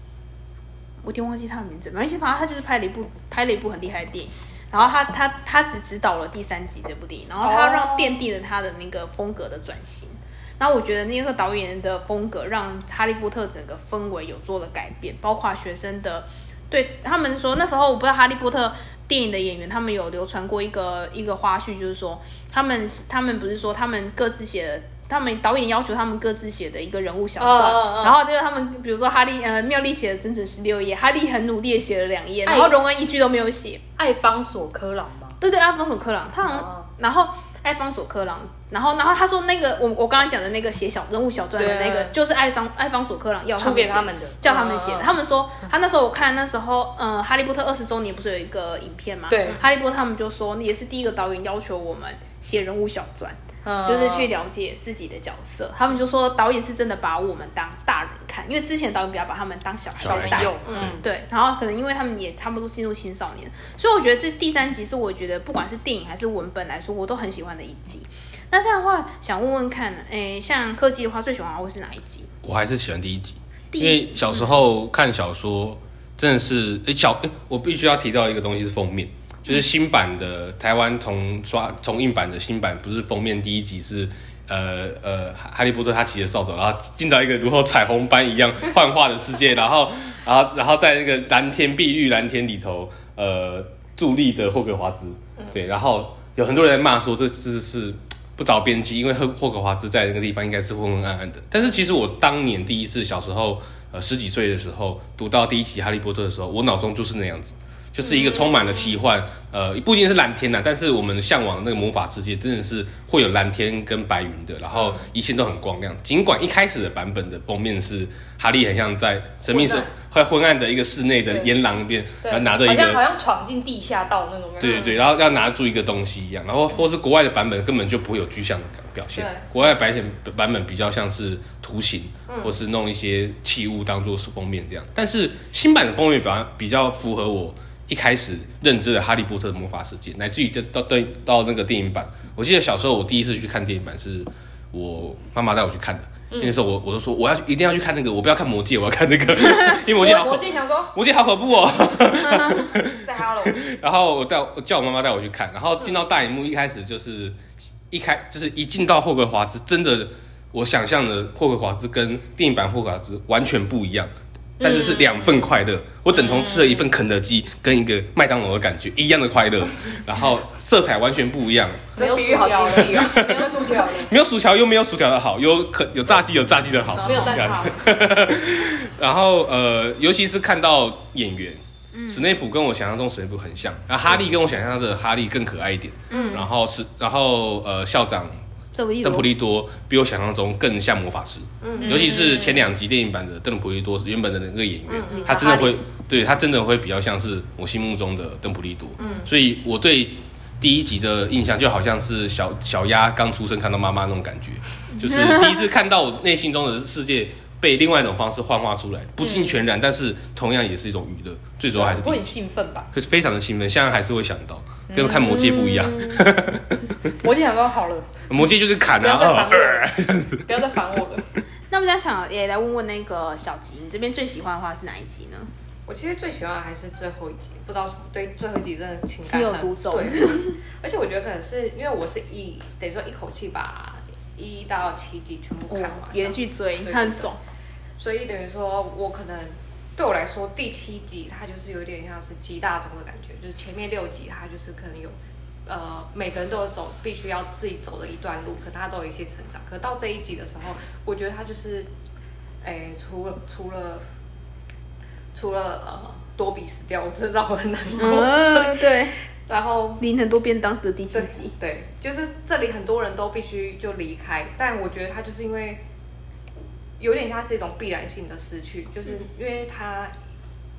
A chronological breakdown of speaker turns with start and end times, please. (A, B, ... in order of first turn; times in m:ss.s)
0:01.0-0:33.8 A
0:07.4-0:08.2 B
0:27.4-0:28.2 B
0:32.4-0:32.8 B
0:34.0-0:35.4 B
0:35.4-1:12.3 A
0:36.5-0:36.8 B
0:41.6-0:42.1 B
0:43.5-0:45.1 B
0:49.3-0:49.6 B
0:53.6-0:54.3 B
1:00.0-1:01.0 C
1:00.0-1:01.0 B
1:00.6-1:00.9 D
1:12.4-2:03.0 C
1:13.7-1:14.6 A
1:59.5-1:59.9 D
2:02.3-2:05.0 B
2:04.6-2:37.4 C
2:09.1-2:09.5 D
2:12.3-2:12.6 D
2:26.3-2:26.6 B
2:29.7-2:30.9 B
2:32.5-2:33.6 B
2:37.9-2:52.0 C
2:44.6-2:45.5 B
2:46.1-2:46.9 B
2:51.9-2:54.1 B
2:51.9-2:54.1 D
2:52.9-3:08.4 C
2:56.9-2:57.7 D
2:56.9-2:57.9 B
3:01.9-3:02.3 A
3:06.1-3:06.4 A
3:08.7-3:09.3 A
3:09.0-3:32.3 C
3:11.6-3:12.1 D
3:11.8-3:12.6 B
3:14.9-3:15.5 D
3:15.1-3:15.8 A
3:19.0-3:19.3 D
3:25.1-3:25.4 A
3:29.2-3:29.6 B
3:31.7-3:32.9 B
3:32.9-3:36.8 C
3:34.9-3:36.3 B
3:37.0-3:38.3 B
3:38.3-3:41.0 C
3:38.9-3:39.9 B
3:40.4-3:41.3 B
3:41.7-3:45.5 A
3:45.8-3:57.3 D
3:49.2-3:50.6 A
3:55.7-3:57.4 A
3:58.0-4:05.1 D
4:05.7-4:11.9 D
4:12.6-4:14.0 D
4:15.3-4:18.8 D
4:18.0-4:19.2 A
4:19.5-4:20.0 D
4:20.0-4:21.5 A
4:21.1-4:25.8 D
4:27.0-4:30.1 D